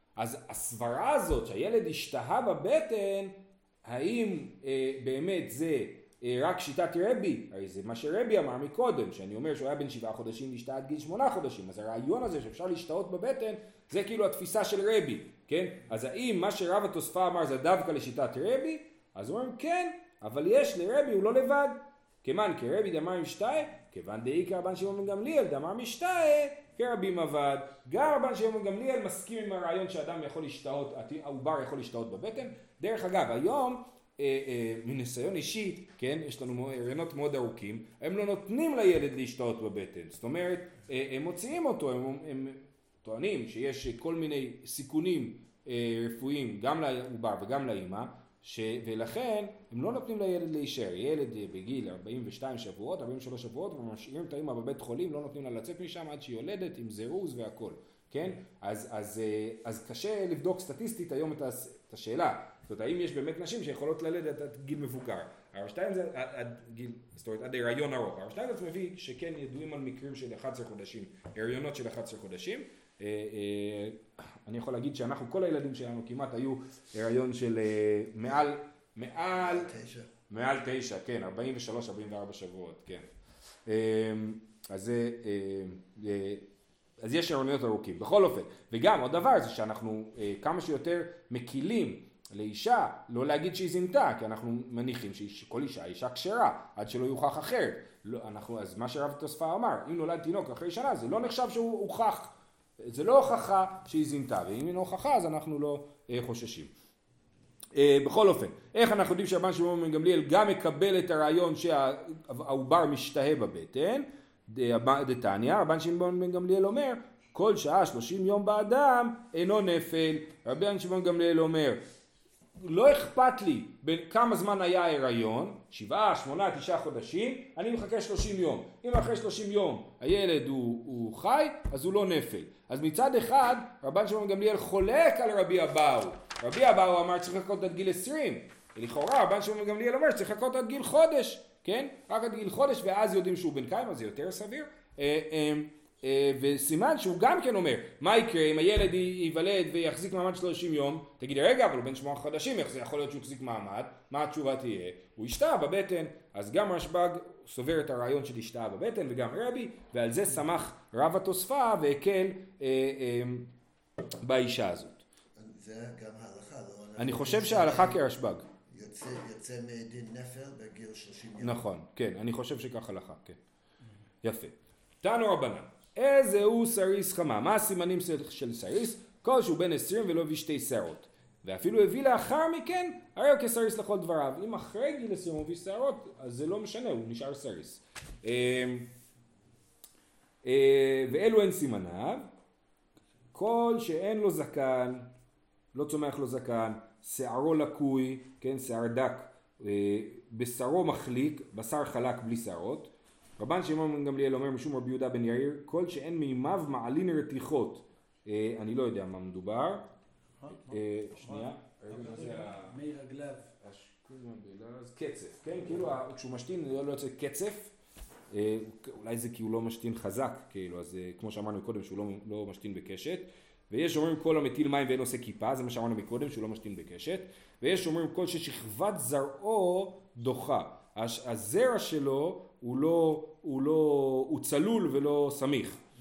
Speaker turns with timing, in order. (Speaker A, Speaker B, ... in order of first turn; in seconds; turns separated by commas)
Speaker A: 0.1-79.8, Speaker B: 79.3-80.1, Speaker A: 80.3-83.1, Speaker A: 83.7-86.5, Speaker A: 87.0-106.7, Speaker A: 107.7-121.8, Speaker A: 122.6-163.5, Speaker A: 164.2-165.1, Speaker B: 165.3-168.1, Speaker A: 167.0-168.4, Speaker B: 168.7-171.6, Speaker A: 171.4-173.4, Speaker A: 174.2-188.9, Speaker A: 190.4-192.3, Speaker A: 193.3-195.1, Speaker A: 195.7-209.8, Speaker A: 210.5-212.8, Speaker C: 211.4-213.5, Speaker A: 213.6-217.7, Speaker A: 218.3-235.8